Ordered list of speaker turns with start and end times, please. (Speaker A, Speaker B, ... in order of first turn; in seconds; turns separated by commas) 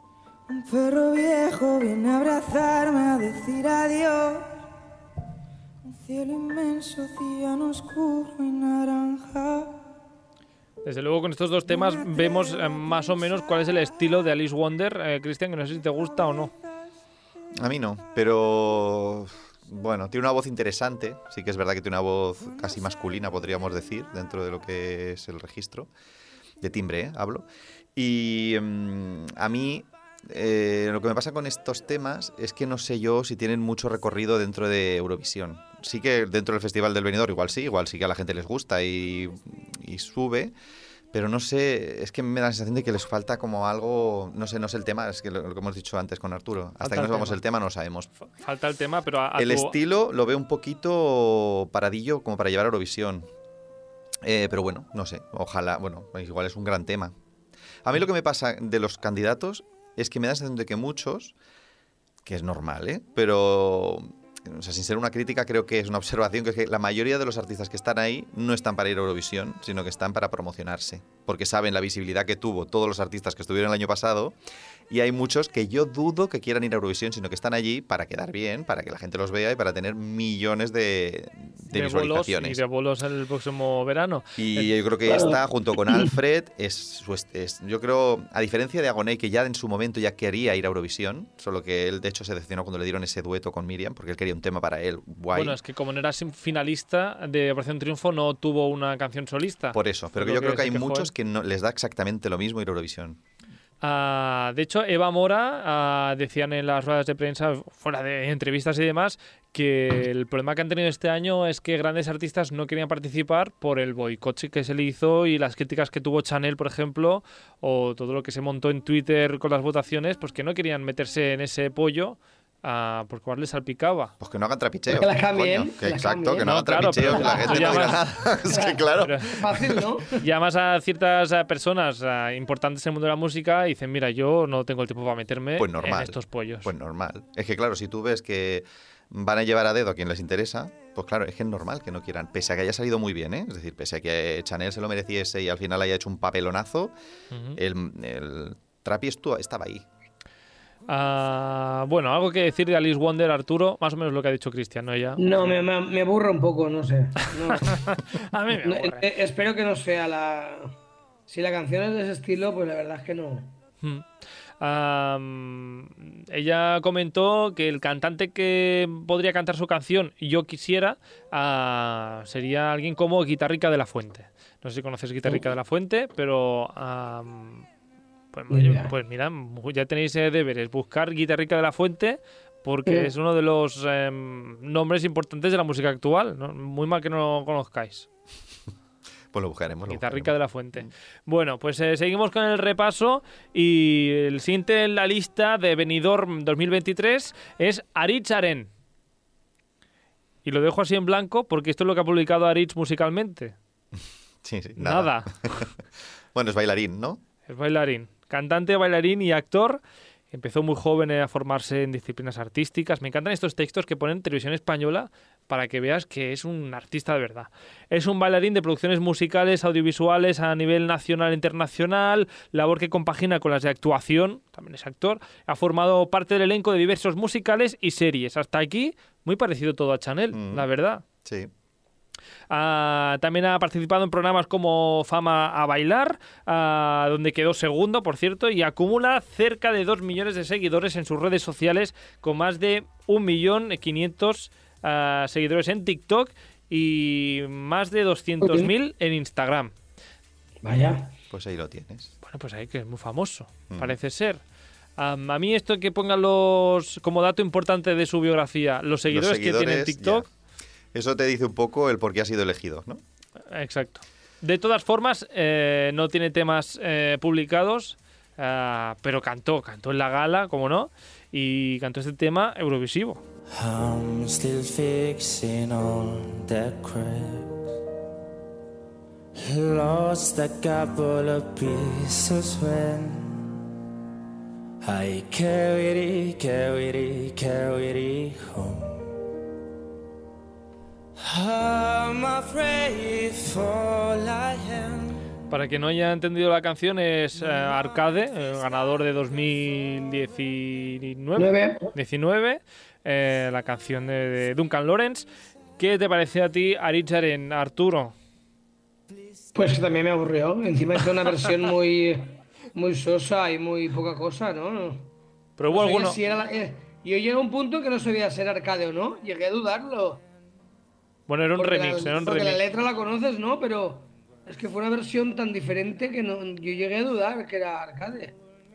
Speaker A: 0.5-4.6, Speaker A: 5.9-9.8, Speaker B: 10.8-16.5, Speaker A: 11.7-13.8, Speaker C: 17.6-25.9, Speaker C: 26.6-40.5, Speaker C: 41.1-48.1, Speaker B: 46.8-47.4, Speaker B: 48.3-49.8, Speaker C: 49.4-53.3, Speaker C: 54.2-57.1, Speaker C: 57.9-61.4, Speaker C: 62.2-74.4, Speaker C: 74.9-82.6, Speaker B: 81.7-84.7, Speaker C: 84.4-95.6, Speaker D: 85.1-85.4, Speaker B: 95.3-101.1, Speaker C: 99.7-103.2, Speaker B: 103.8-124.1, Speaker C: 124.2-129.8, Speaker D: 124.9-130.2, Speaker B: 126.4-128.3, Speaker B: 129.0-129.4, Speaker B: 130.1-136.7, Speaker C: 135.6-146.9, Speaker B: 147.3-147.6, Speaker C: 147.6-149.9, Speaker B: 150.9-155.5, Speaker D: 155.2-157.9, Speaker B: 157.5-159.1, Speaker D: 158.6-160.7, Speaker D: 161.3-163.6, Speaker B: 164.6-177.7, Speaker B: 178.3-188.1, Speaker D: 178.5-178.9, Speaker C: 189.3-190.9, Speaker B: 189.9-198.7, Speaker B: 200.4-203.6, Speaker C: 204.4-205.7, Speaker B: 204.8-205.7, Speaker C: 206.3-207.2, Speaker B: 207.5-209.8, Speaker B: 210.3-231.0, Speaker C: 230.3-230.7, Speaker C: 231.2-231.5, Speaker B: 232.5-249.7, Speaker D: 248.4-248.7, Speaker D: 250.6-251.2, Speaker C: 251.3-252.1, Speaker B: 252.2-254.4, Speaker C: 253.7-253.9, Speaker B: 255.0-260.2, Speaker C: 259.1-260.3, Speaker C: 260.9-263.0, Speaker B: 263.5-273.2, Speaker E: 273.5-277.6, Speaker E: 279.4-283.5, Speaker E: 284.8-289.1, Speaker E: 291.2-295.3, Speaker B: 295.5-305.2, Speaker D: 301.4-301.9, Speaker B: 305.8-308.1, Speaker D: 309.6-315.1, Speaker B: 315.6-316.2, Speaker D: 315.7-320.2, Speaker B: 321.3-322.6, Speaker D: 321.6-328.4